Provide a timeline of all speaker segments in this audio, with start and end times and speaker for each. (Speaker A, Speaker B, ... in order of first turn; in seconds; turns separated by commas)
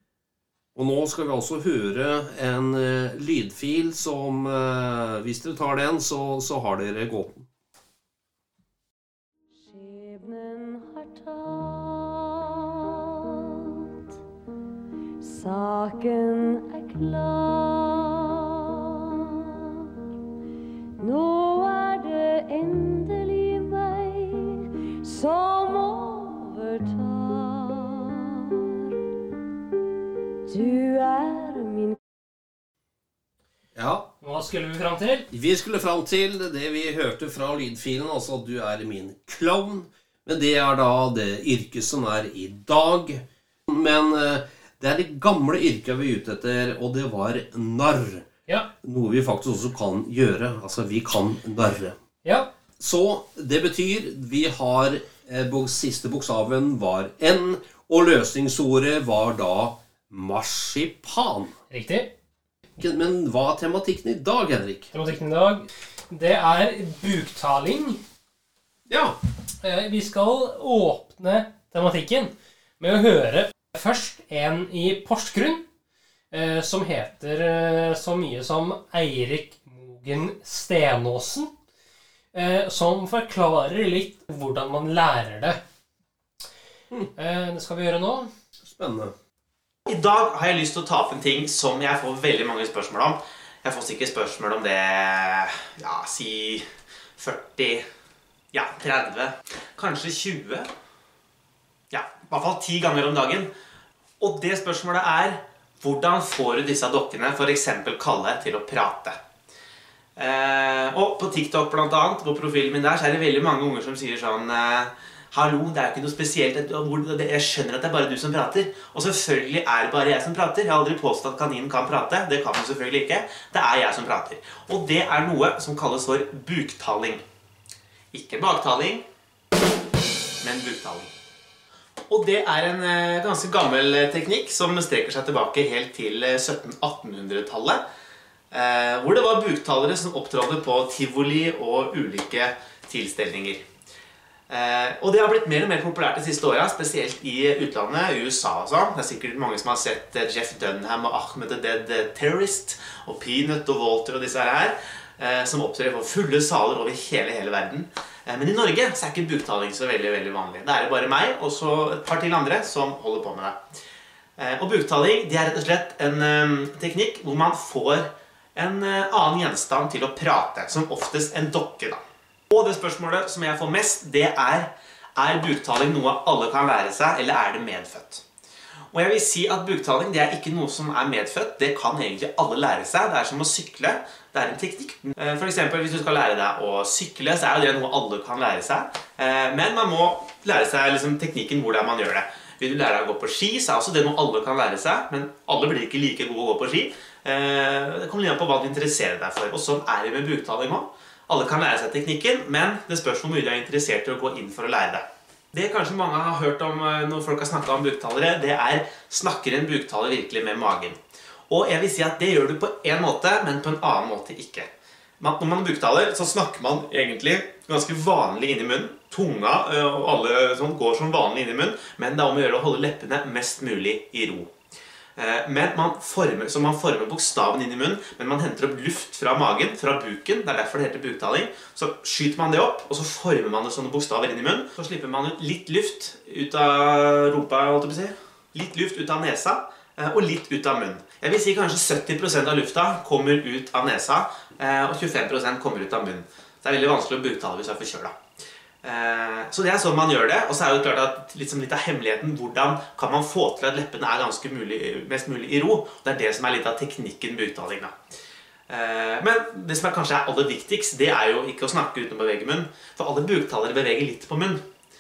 Speaker A: 0.8-7.5, Speaker B: 9.6-13.9, Speaker B: 15.2-19.9, Speaker B: 21.0-28.8, Speaker B: 30.5-32.0, Speaker A: 33.8-34.1, Speaker C: 34.2-35.3, Speaker A: 35.3-48.3, Speaker A: 48.8-52.0, Speaker C: 52.2-52.5, Speaker A: 52.8-61.6, Speaker C: 61.7-62.1, Speaker A: 62.8-64.9, Speaker C: 64.9-68.0, Speaker A: 68.9-69.2, Speaker C: 69.6-75.7, Speaker C: 76.3-81.5, Speaker C: 82.3-85.6, Speaker C: 87.2-88.3, Speaker A: 88.6-89.1, Speaker D: 89.9-96.7, Speaker D: 97.2-97.9, Speaker D: 98.5-100.7, Speaker D: 101.9-103.5, Speaker D: 104.2-109.2, Speaker D: 110.2-127.2, Speaker D: 128.1-129.1, Speaker D: 130.4-131.1, Speaker D: 132.1-137.8, Speaker D: 138.5-143.6, Speaker D: 144.5-163.6, Speaker D: 164.4-178.2, Speaker D: 178.9-211.0, Speaker D: 211.5-214.7, Speaker D: 215.2-224.5, Speaker D: 225.2-248.1, Speaker D: 248.8-257.9, Speaker D: 258.7-264.6